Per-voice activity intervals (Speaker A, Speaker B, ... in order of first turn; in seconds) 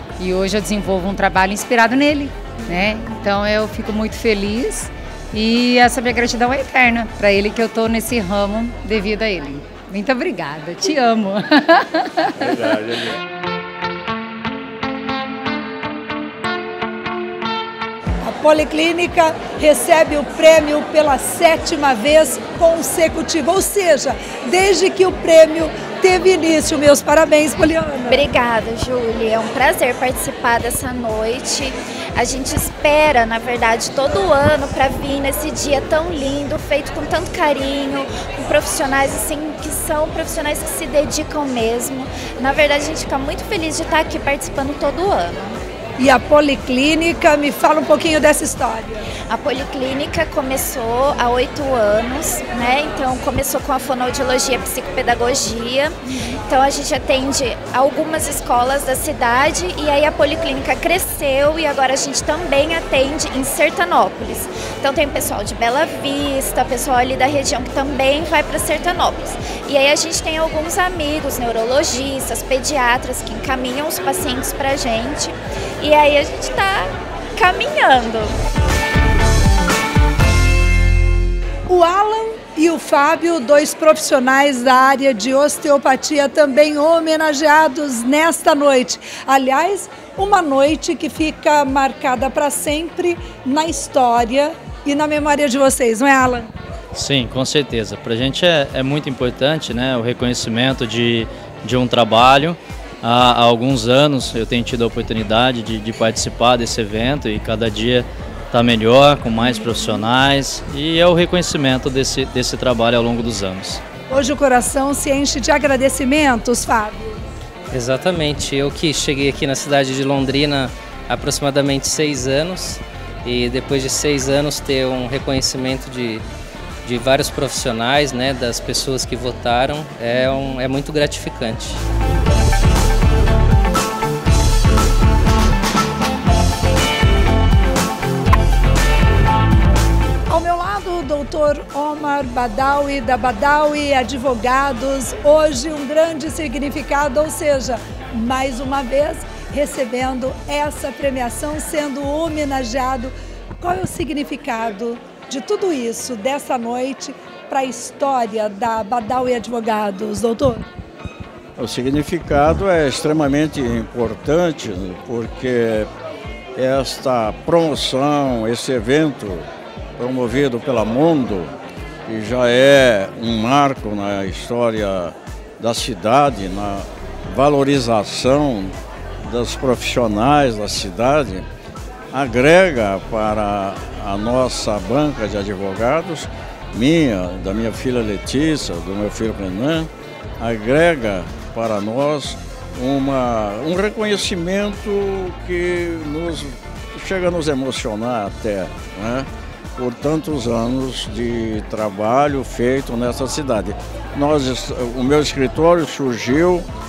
Speaker A: 0.2-12.8
Speaker B: 18.2-28.2, 46.0-49.0, 81.7-96.5, 114.1-117.2, 140.3-160.6
Speaker C: 28.1-45.6, 49.3-55.9, 56.5-78.3
Speaker D: 96.9-113.8
Speaker E: 117.7-126.2, 126.8-131.8
Speaker F: 161.6-165.9, 166.6-171.5, 172.1-181.5, 182.1-206.7